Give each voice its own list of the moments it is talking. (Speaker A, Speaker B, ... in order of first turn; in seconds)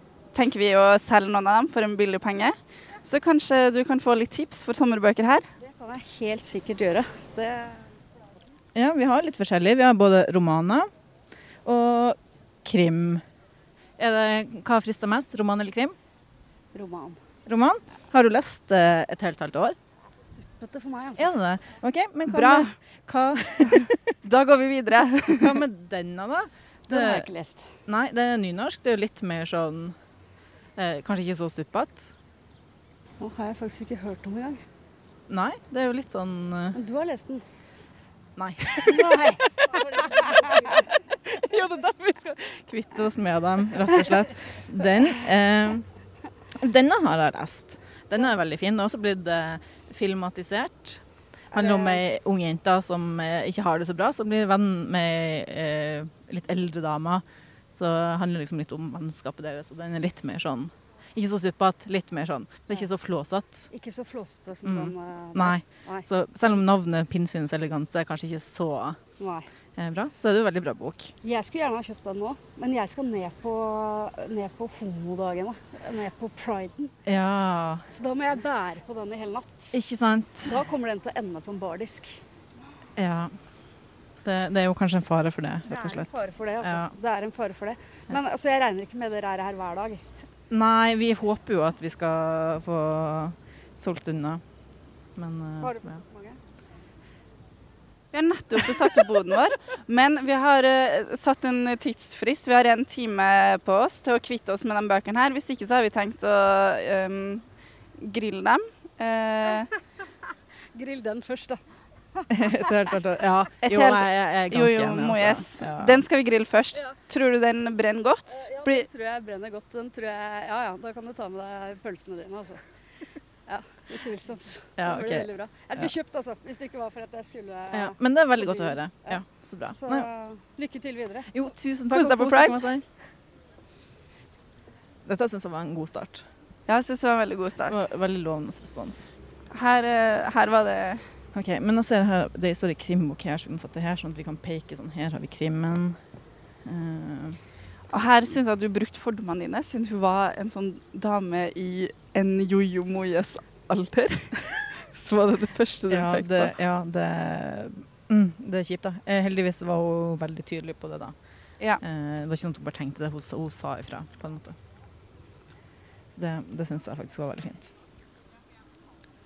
Speaker A: 0.3-5.5, 22.3-22.7, 24.2-25.6, 98.1-107.4, 108.0-109.7, 113.6-118.9, 131.9-132.6, 136.7-137.8, 139.5-141.0, 147.9-156.5
Speaker B: 5.6-7.9, 16.7-17.2, 20.4-21.3, 26.9-27.7, 33.2-34.6, 36.7-37.4, 38.8-40.8, 63.7-66.1, 69.2-69.5, 71.2-76.9, 77.9-79.7, 80.4-82.2, 85.7-90.0, 95.6-96.4, 110.7-111.6, 118.4-122.6, 123.5-129.2, 129.7-131.3
Speaker C: 8.7-10.9, 11.6-13.2, 14.0-15.9, 17.4-19.8, 21.2-24.1, 25.3-27.3, 27.9-29.9, 30.8-32.1, 35.3-36.8, 38.4-39.3, 41.2-45.9, 46.6-51.0, 51.5-63.7, 64.6-69.0, 69.8-71.1, 77.0-77.8, 79.7-80.6, 83.0-83.3, 84.2-86.9, 90.5-94.4, 95.2-96.0, 112.3-116.0, 124.8-125.9, 127.7-130.1, 131.3-132.8, 135.1-136.2, 137.7-139.1, 141.3-146.0, 146.6-147.4, 155.9-161.1, 161.8-164.6, 166.1-167.7